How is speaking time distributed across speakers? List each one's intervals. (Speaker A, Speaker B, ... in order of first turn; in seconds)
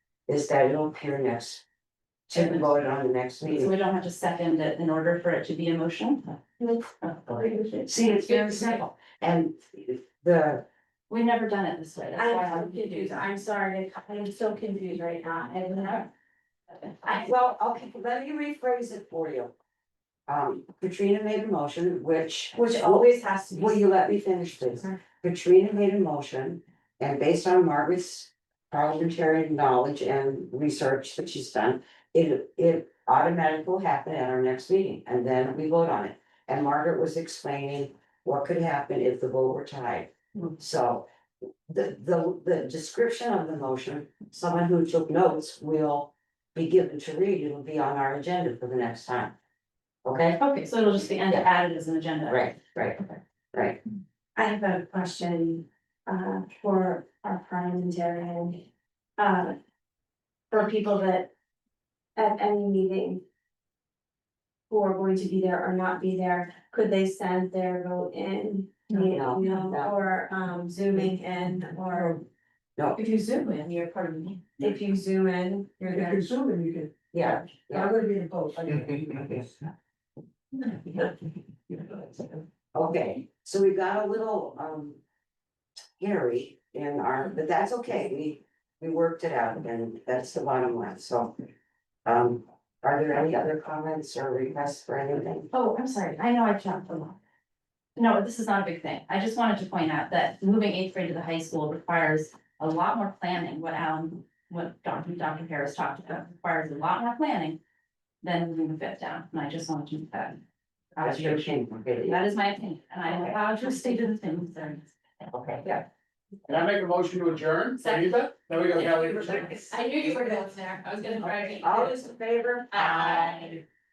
Speaker A: 0.3-1.6, 2.3-3.7, 7.8-10.7, 17.2-19.5, 20.3-41.0, 41.7-49.3, 50.0-50.4, 52.3-53.8, 69.1-69.9, 77.1-77.9, 82.7-85.0, 86.0-91.3, 92.0-95.5, 111.0-112.2, 113.0-113.4, 115.3-115.8, 121.2-123.5
Speaker B: 2.3-2.8, 3.5-6.4, 7.0-8.8, 11.1-13.2, 22.6-23.6, 50.4-52.5, 72.9-74.4, 95.5-97.2, 98.0-107.6, 108.2-110.4, 110.9-115.6, 117.8-118.2, 118.7-122.1, 122.7-123.6
Speaker C: 12.1-16.1, 54.3-58.6, 59.2-59.6, 60.5-61.3, 62.1-63.2, 64.7-72.2, 74.6-76.3
Speaker D: 75.9-76.9, 77.7-79.5, 80.7-81.1, 81.7-82.4
Speaker E: 116.5-119.5